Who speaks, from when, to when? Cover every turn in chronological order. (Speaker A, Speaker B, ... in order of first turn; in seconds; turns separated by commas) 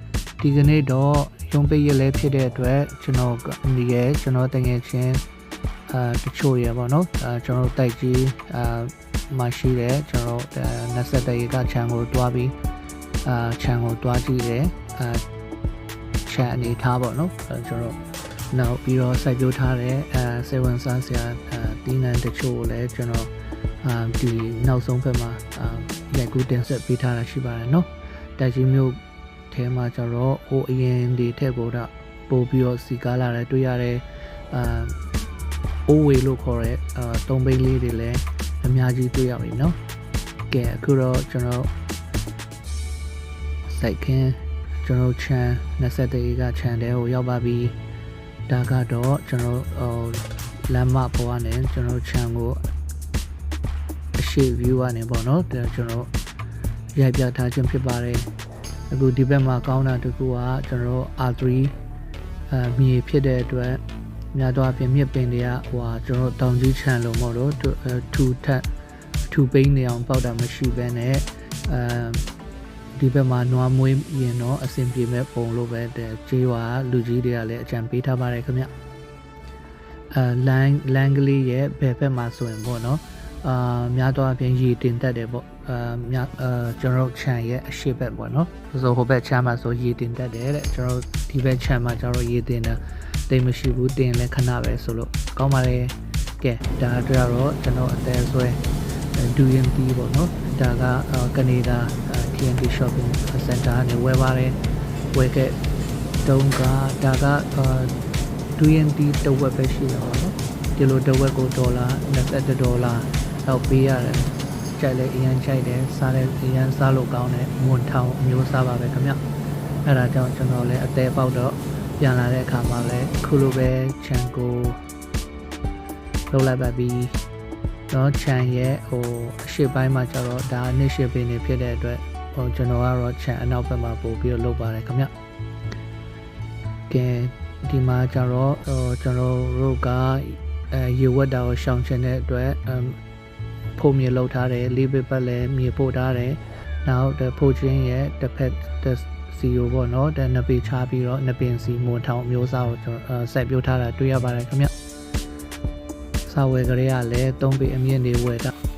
Speaker A: 0.4-5.2, Speaker A: 5.9-12.6, Speaker A: 13.2-15.2, Speaker A: 16.3-18.0, Speaker A: 18.5-35.0, Speaker A: 35.9-39.8, Speaker A: 40.5-41.7, Speaker A: 43.7-47.8, Speaker A: 48.5-52.6, Speaker A: 54.2-56.1, Speaker A: 57.0-58.3, Speaker A: 58.9-61.8, Speaker A: 62.5-63.8, Speaker A: 64.3-68.7, Speaker A: 69.3-72.3, Speaker A: 73.0-78.7, Speaker A: 80.1-98.6, Speaker A: 99.2-104.6, Speaker A: 105.1-105.6, Speaker A: 106.2-107.9, Speaker A: 108.6-119.2, Speaker A: 119.8-124.8, Speaker A: 126.3-127.2, Speaker A: 127.9-135.1, Speaker A: 136.9-143.0, Speaker A: 143.8-154.7, Speaker A: 156.3-158.5